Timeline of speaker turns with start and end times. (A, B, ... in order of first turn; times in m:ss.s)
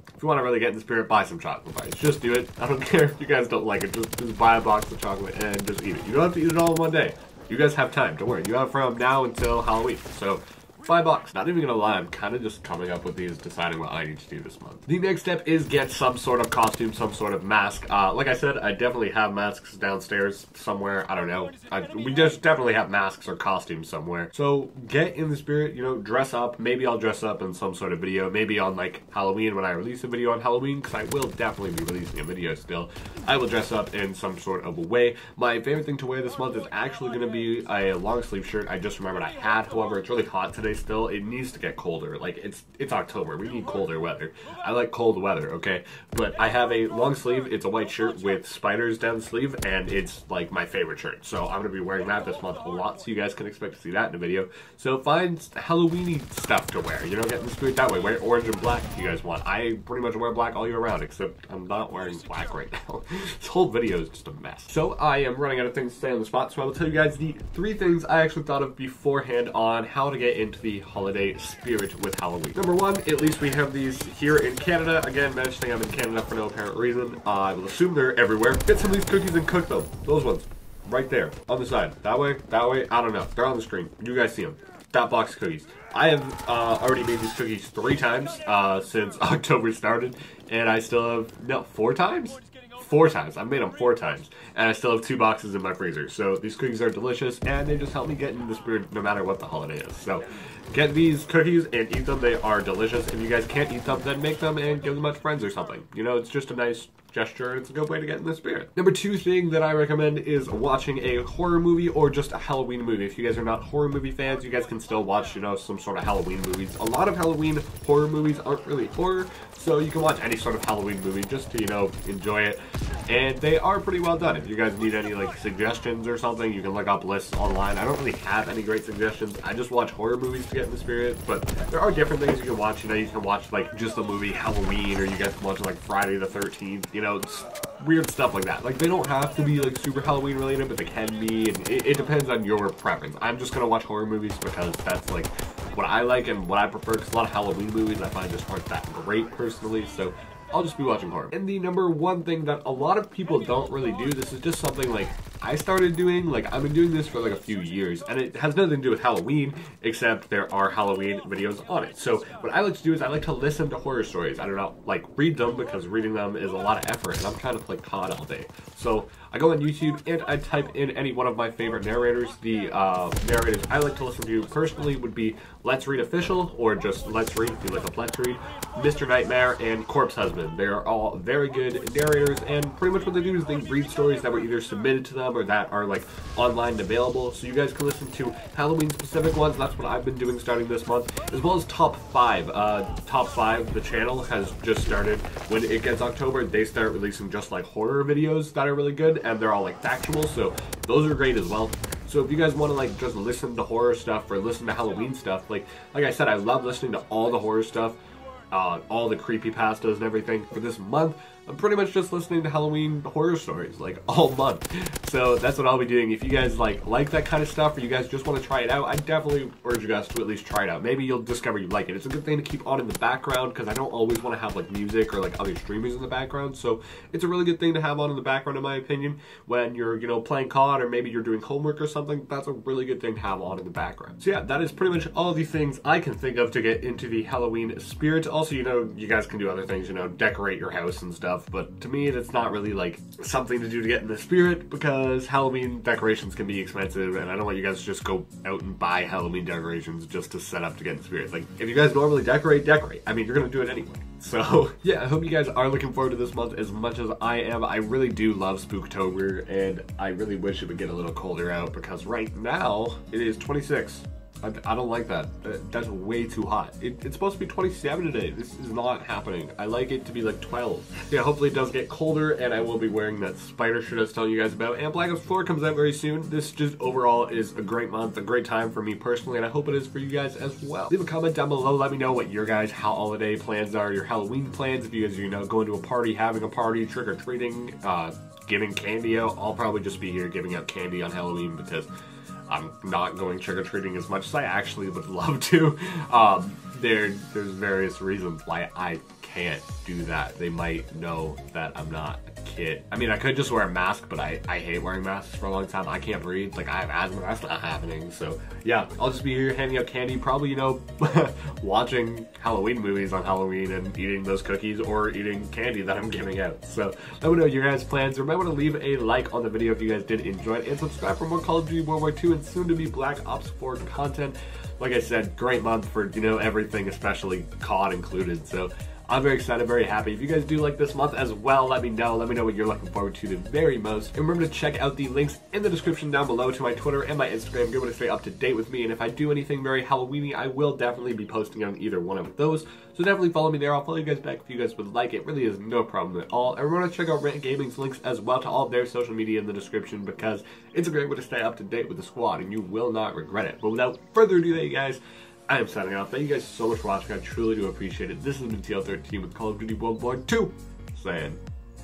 0:00.2-3:28.0 A
3:28.5-4:51.9 A
4:52.5-6:01.4 A